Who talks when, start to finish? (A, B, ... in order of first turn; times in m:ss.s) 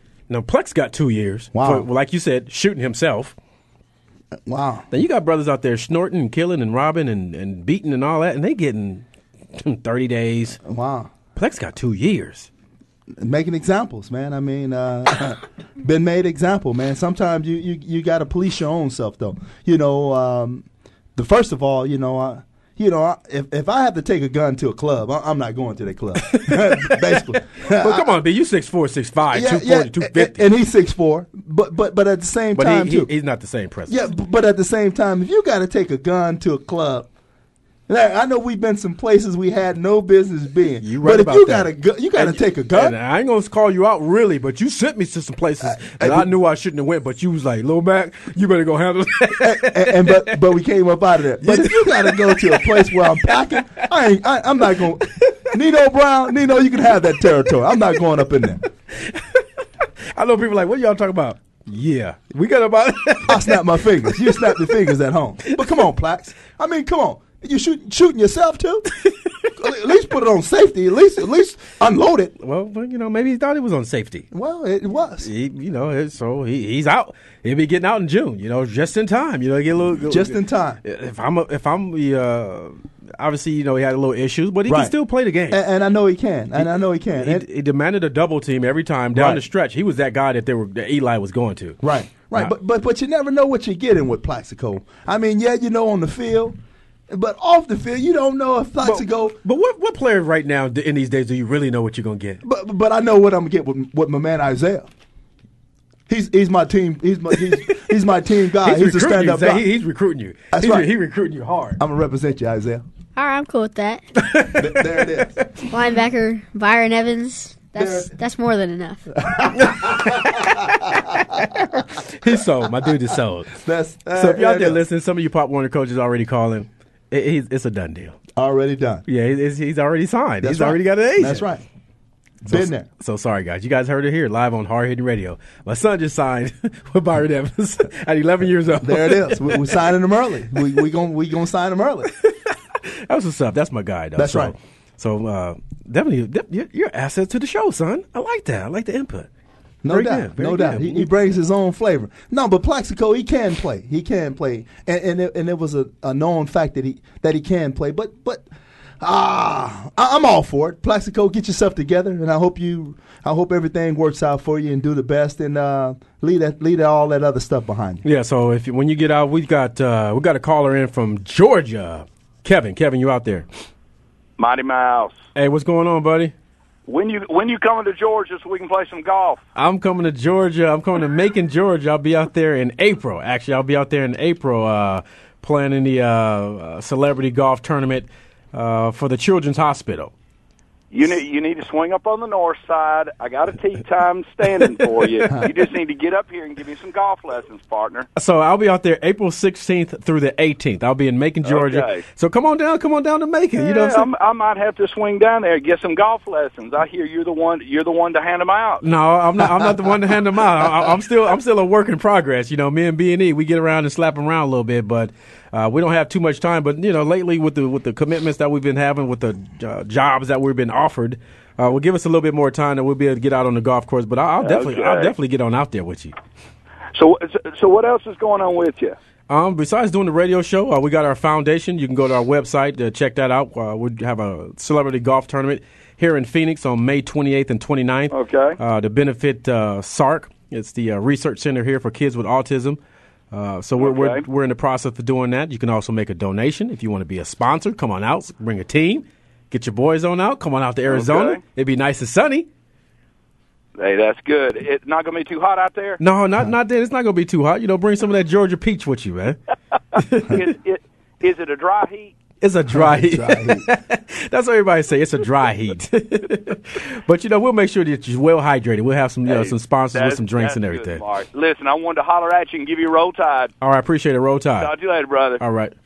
0:00.3-0:03.3 A
0:01.5-0:01.9 B
0:04.4-0:04.9 B
0:04.9-0:10.6 A
0:10.6-0:11.1 B
0:11.4-0:12.5 A
0:13.2-0:28.1 B
0:26.2-0:30.5 A
0:29.3-0:33.1 B
0:32.5-0:34.0 A
0:33.9-0:37.1 B
0:37.9-0:42.9 B
0:40.8-0:50.4 A
0:45.6-0:46.3 B
0:49.4-0:58.6 B
0:51.4-0:53.4 A
0:59.0-0:59.4 A
1:00.1-1:03.6 A
1:03.2-1:08.9 B
1:04.1-1:04.6 A
1:09.6-1:12.3 B
1:12.4-1:14.2 A
1:14.3-1:15.3 B
1:15.2-1:25.6 A
1:20.1-1:20.8 B
1:24.7-1:24.9 B
1:25.5-1:27.4 B
1:26.6-1:31.8 A
1:29.1-1:29.4 B
1:31.8-1:36.6 B
1:37.1-1:39.4 B
1:38.8-1:42.4 A
1:42.4-1:44.9 B
1:46.1-1:49.6 B
1:48.6-1:51.8 A
1:50.5-1:50.9 B
1:51.8-1:52.8 B
1:53.2-1:54.0 C
1:54.2-1:55.5 A
1:54.5-1:55.4 B
1:55.7-1:59.0 C
1:57.7-1:58.1 B
1:59.2-2:00.5 B
1:59.6-2:03.6 A
2:03.6-2:04.8 B
2:04.1-2:08.2 A
2:08.4-2:09.0 B
2:09.1-2:11.4 A
2:10.4-2:11.6 B
2:12.4-2:12.9 B
2:12.5-2:19.9 A
2:18.8-2:22.1 B
2:22.2-2:29.3 A
2:24.2-2:24.5 B
2:29.8-2:38.4 B
2:29.9-2:31.1 A
2:39.0-2:48.0 B
2:48.0-2:53.4 A
2:54.4-2:55.2 D
2:55.3-2:56.3 A
2:56.9-2:59.4 D
2:59.6-3:10.1 A
3:10.9-3:18.0 D
3:18.2-3:24.1 A
3:21.4-3:22.0 D
3:23.6-3:28.8 D
3:28.8-3:46.1 A
3:44.4-3:45.1 D
3:46.9-3:49.0 D
3:49.3-4:02.8 A
3:58.1-3:58.6 D
4:03.3-4:12.5 A
4:03.8-4:04.2 D
4:10.9-4:11.4 D
4:13.8-4:16.0 D
4:16.0-4:19.4 A
4:20.0-4:20.5 A
4:20.3-4:22.2 D
4:22.4-4:31.0 A
4:22.7-4:23.6 B
4:29.2-4:33.5 D
4:33.6-4:34.7 A
4:34.6-4:35.4 D
4:35.4-4:35.7 A